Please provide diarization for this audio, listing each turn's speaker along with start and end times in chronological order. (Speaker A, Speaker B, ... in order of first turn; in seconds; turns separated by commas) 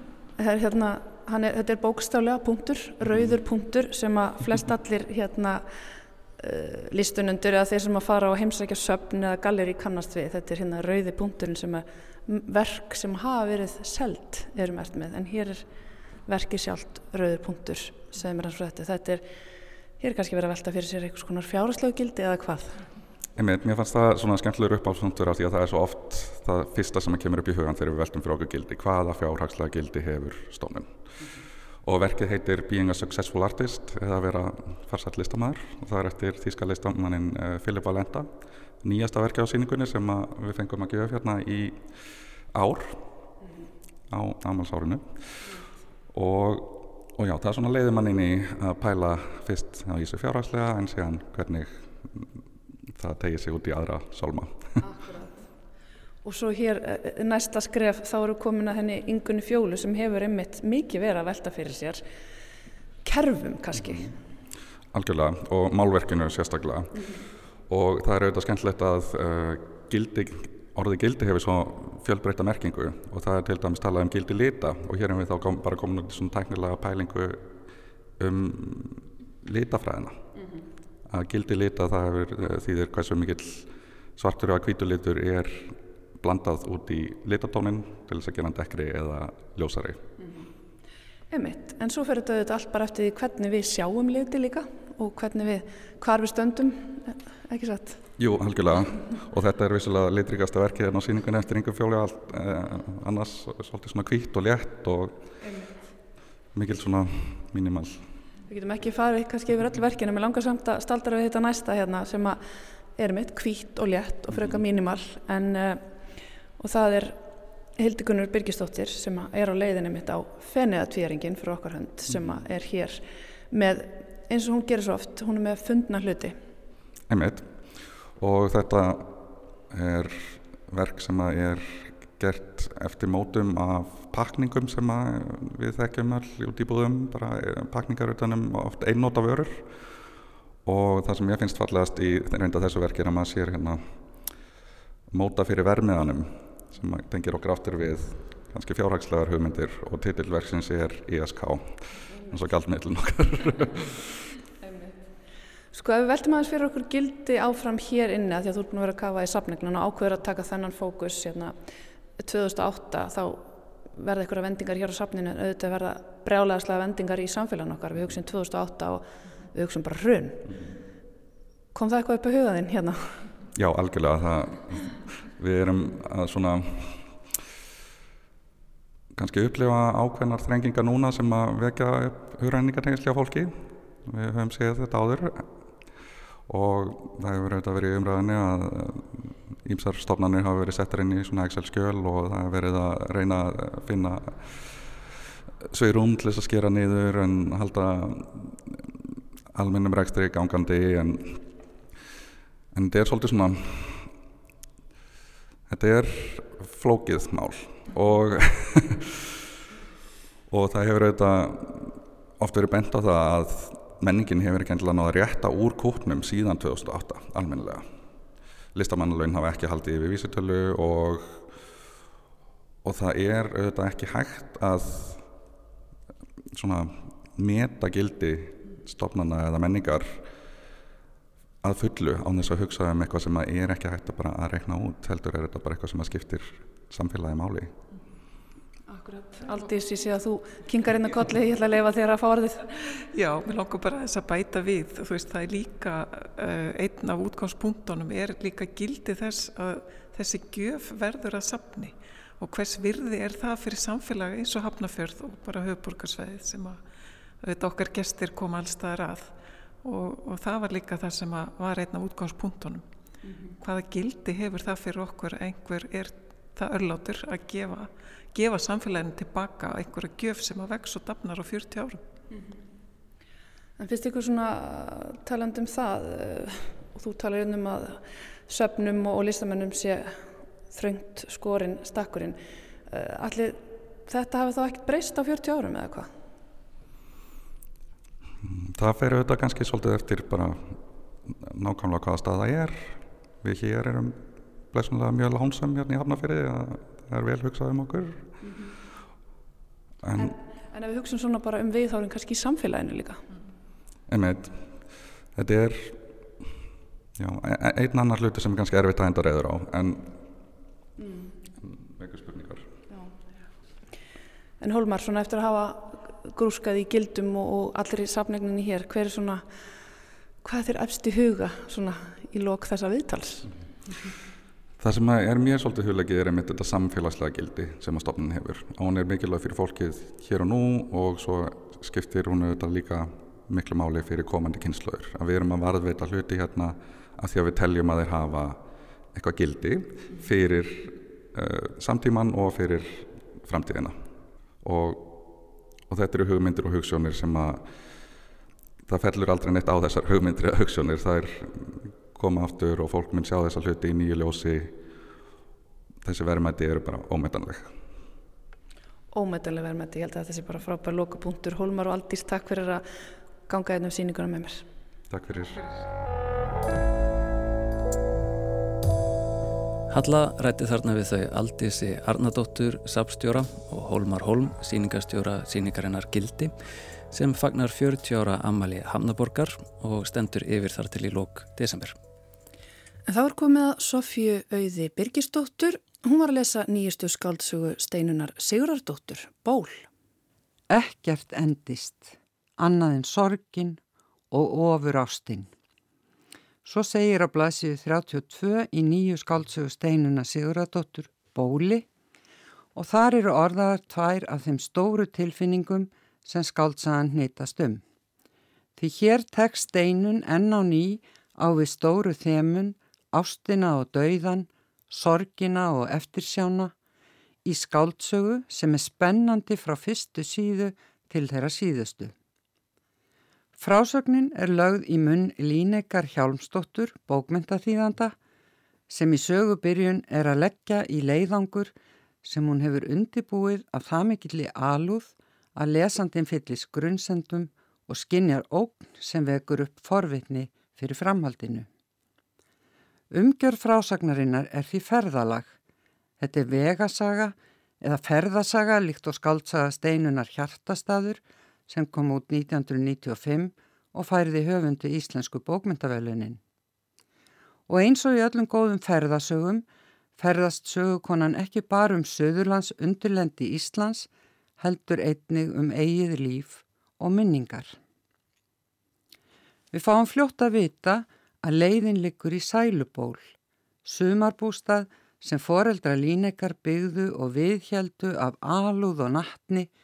Speaker A: 0.4-5.7, Speaker A: 6.4-15.7, Speaker A: 16.2-19.2, Speaker A: 20.0-22.8, Speaker B: 23.4-31.0, Speaker B: 31.8-42.0, Speaker B: 42.5-43.0, Speaker B: 44.1-45.5, Speaker B: 46.1-52.3, Speaker B: 52.9-54.8, Speaker A: 54.8-55.4, Speaker A: 56.2-62.0, Speaker A: 63.0-64.1, Speaker B: 64.9-77.5, Speaker B: 78.2-80.3, Speaker B: 81.1-90.0, Speaker A: 91.3-98.0, Speaker B: 98.2-105.3, Speaker A: 105.4-105.7, Speaker B: 106.5-108.1, Speaker A: 108.5-112.4, Speaker A: 113.0-115.9, Speaker A: 116.6-117.2, Speaker A: 117.8-126.4, Speaker B: 127.1-127.6, Speaker B: 128.2-139.7, Speaker B: 140.6-143.9, Speaker B: 145.1-154.1, Speaker A: 154.7-154.9, Speaker A: 155.7-161.5, Speaker A: 162.2-170.5, Speaker A: 171.7-173.2, Speaker B: 173.5-177.2, Speaker B: 179.1-185.5, Speaker B: 186.5-194.8, Speaker B: 195.7-198.9, Speaker B: 199.5-201.4, Speaker B: 202.7-204.1, Speaker B: 205.7-209.2, Speaker B: 210.5-217.8, Speaker B: 218.7-221.5, Speaker B: 222.8-225.3, Speaker B: 226.5-230.3, Speaker B: 231.6-237.7, Speaker A: 239.1-242.7, Speaker C: 243.1-256.8, Speaker C: 257.4-262.9, Speaker C: 263.6-272.0, Speaker A: 273.8-286.1, Speaker B: 288.4-298.3, Speaker B: 300.0-300.3, Speaker A: 300.1-303.2, Speaker B: 304.1-306.0, Speaker B: 307.2-310.2, Speaker A: 311.0-311.3, Speaker B: 311.6-312.7, Speaker A: 314.6-319.4, Speaker A: 320.4-323.5, Speaker B: 324.8-344.0, Speaker B: 344.6-345.3, Speaker B: 345.9-347.7, Speaker B: 348.9-354.8, Speaker B: 356.0-357.8, Speaker A: 359.1-362.8, Speaker A: 363.5-364.6, Speaker B: 365.1-365.7, Speaker D: 369.9-376.5, Speaker D: 377.1-381.9, Speaker A: 383.1-389.9, Speaker E: 390.7-393.8, Speaker E: 394.3-395.5, Speaker E: 396.6-401.9, Speaker E: 402.7-407.8, Speaker E: 408.8-416.7, Speaker E: 417.4-422.1, Speaker E: 423.6-428.1, Speaker E: 428.9-441.7, Speaker E: 443.1-445.5, Speaker E: 446.2-456.4, Speaker E: 457.7-459.6, Speaker E: 460.2-464.1, Speaker E: 464.6-467.8, Speaker E: 469.7-473.3, Speaker E: 473.8-479.7